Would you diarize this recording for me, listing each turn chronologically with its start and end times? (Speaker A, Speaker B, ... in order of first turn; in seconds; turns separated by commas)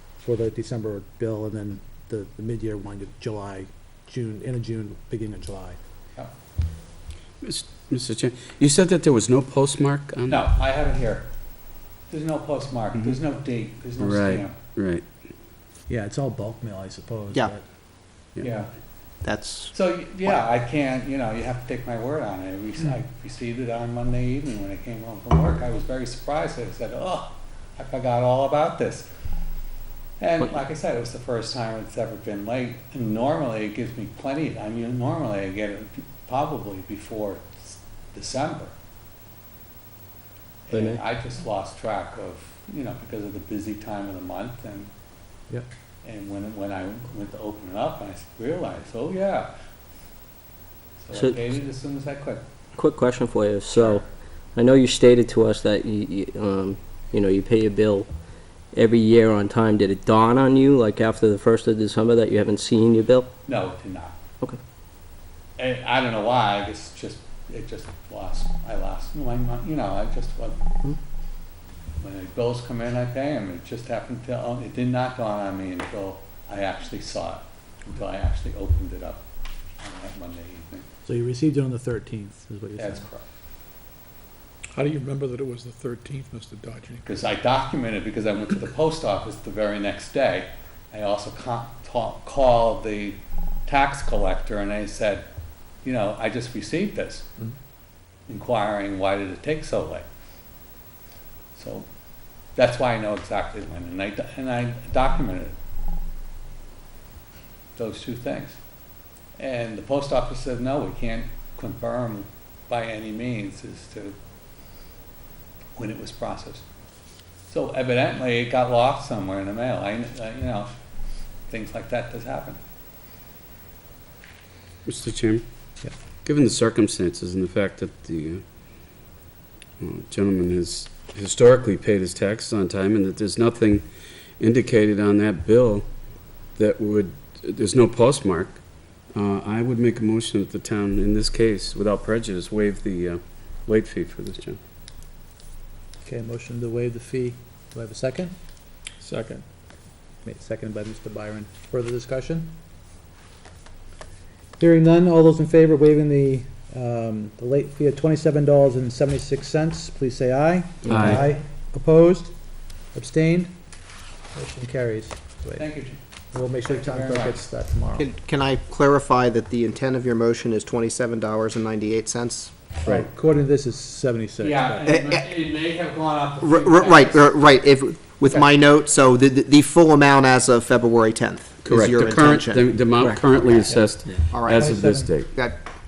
Speaker A: 0.2-5.8, Speaker B: 7.4-10.4, Speaker C: 10.3-11.3, Speaker C: 12.1-14.6, Speaker B: 14.0-15.0, Speaker A: 15.9-17.6, Speaker C: 18.4-18.7, Speaker D: 19.2-19.7, Speaker C: 19.7-29.1, Speaker C: 30.2-38.7, Speaker C: 40.7-44.9, Speaker E: 40.7-41.0, Speaker C: 46.0-49.5, Speaker C: 51.0-52.4, Speaker E: 51.1-51.4, Speaker E: 52.8-58.1, Speaker C: 53.7-54.0, Speaker E: 58.7-63.3, Speaker C: 63.4-64.2, Speaker C: 65.6-70.6, Speaker C: 72.0-79.2, Speaker C: 79.8-80.9, Speaker A: 81.0-83.1, Speaker C: 82.8-83.2, Speaker F: 84.7-87.0, Speaker C: 87.0-95.3, Speaker C: 95.8-97.3, Speaker C: 98.3-100.1, Speaker C: 101.5-101.9, Speaker C: 102.5-105.5, Speaker C: 107.8-108.6, Speaker C: 109.4-114.2, Speaker C: 115.8-116.6, Speaker C: 117.5-120.7, Speaker C: 121.5-122.6, Speaker B: 124.8-125.4, Speaker B: 126.2-128.4, Speaker B: 129.8-133.8, Speaker B: 134.4-135.8, Speaker B: 136.6-138.6, Speaker B: 139.1-144.6, Speaker A: 146.0-148.3, Speaker F: 149.0-149.4, Speaker A: 150.2-152.5, Speaker A: 154.6-162.3, Speaker B: 160.8-161.2, Speaker A: 162.9-163.5, Speaker A: 164.3-165.6, Speaker C: 165.6-166.0, Speaker A: 166.3-168.1, Speaker C: 166.6-167.4, Speaker D: 168.0-172.5, Speaker A: 172.8-174.9, Speaker C: 174.4-177.4, Speaker D: 174.8-175.3, Speaker D: 176.4-182.6, Speaker B: 181.6-185.3, Speaker E: 183.0-183.2, Speaker D: 184.3-184.7, Speaker A: 184.5-185.1, Speaker D: 185.3-185.6